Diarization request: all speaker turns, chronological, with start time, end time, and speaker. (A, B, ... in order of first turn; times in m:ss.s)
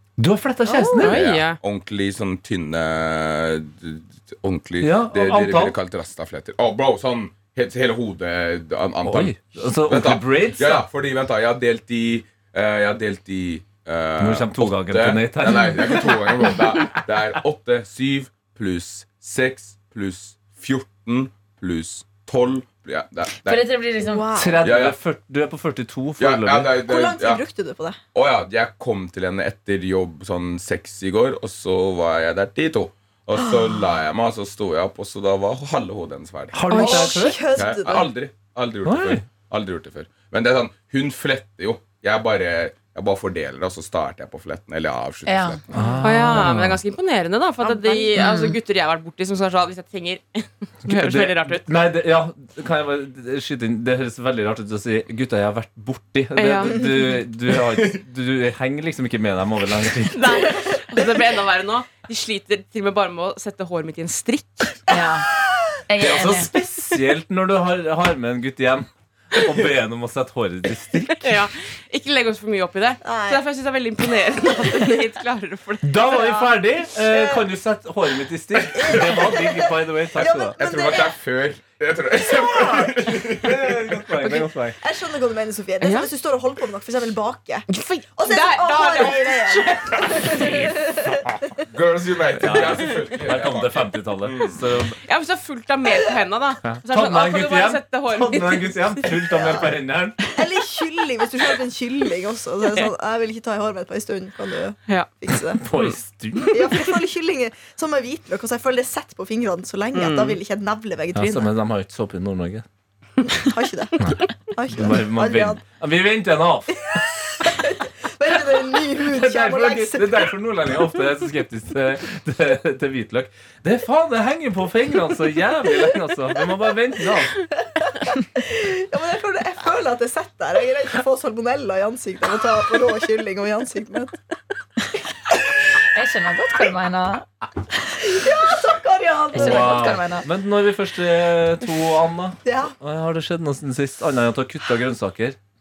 0:00.2-0:01.2 A
0:00.6-0:01.0 B
0:00.9-0:01.6 C
0:01.0-0:23.6 D
0:04.8-0:05.8 A
0:09.0-0:10.8 A
0:14.2-0:17.0 A
0:23.4-0:24.3 E
0:24.0-0:24.7 B
0:24.3-0:26.7 A
0:24.6-0:25.0 D
0:26.2-0:27.4 D
0:26.8-0:28.0 B
0:28.1-0:36.6 D
0:33.4-0:34.0 B
0:36.5-0:37.5 A
0:36.7-0:37.1 C
0:36.7-0:38.1 B
0:37.5-0:45.6 D
0:38.8-0:39.3 A
0:45.2-0:46.0 E
0:45.7-0:46.8 A
0:46.0-0:51.8 C
0:47.6-0:48.4 B
0:48.2-0:48.6 E
0:50.9-1:00.5 A
0:56.4-0:56.8 C
1:00.1-1:04.8 C
1:04.9-1:05.3 E
1:05.9-1:06.5 E
1:06.0-1:11.3 A
1:11.1-1:16.0 C
1:13.0-1:13.4 B
1:15.8-1:20.6 A
1:16.1-1:17.5 B
1:18.6-1:19.3 D
1:18.8-1:19.6 B
1:20.1-1:21.2 B
1:20.2-1:23.8 D
1:22.3-1:24.8 A
1:24.2-1:31.4 B
1:25.8-1:26.1 C
1:27.7-1:30.7 C
1:30.4-1:30.7 A
1:31.7-1:34.6 D
1:32.3-1:35.0 A
1:35.0-1:38.9 C
1:36.6-1:40.2 A
1:39.2-1:39.7 B
1:40.3-1:45.6 B
1:45.6-1:46.6 A
1:45.8-1:46.9 C
1:46.5-1:51.5 B
1:49.9-1:50.4 C
1:51.1-1:52.6 A
1:53.2-1:55.6 B
1:54.0-1:57.0 A
1:56.9-2:00.3 B
1:58.8-2:07.4 A
2:08.1-2:14.1 B
2:15.8-2:17.4 E
2:18.0-2:20.0 B
2:19.3-2:20.2 E
2:19.3-2:25.4 A
2:22.4-2:22.7 B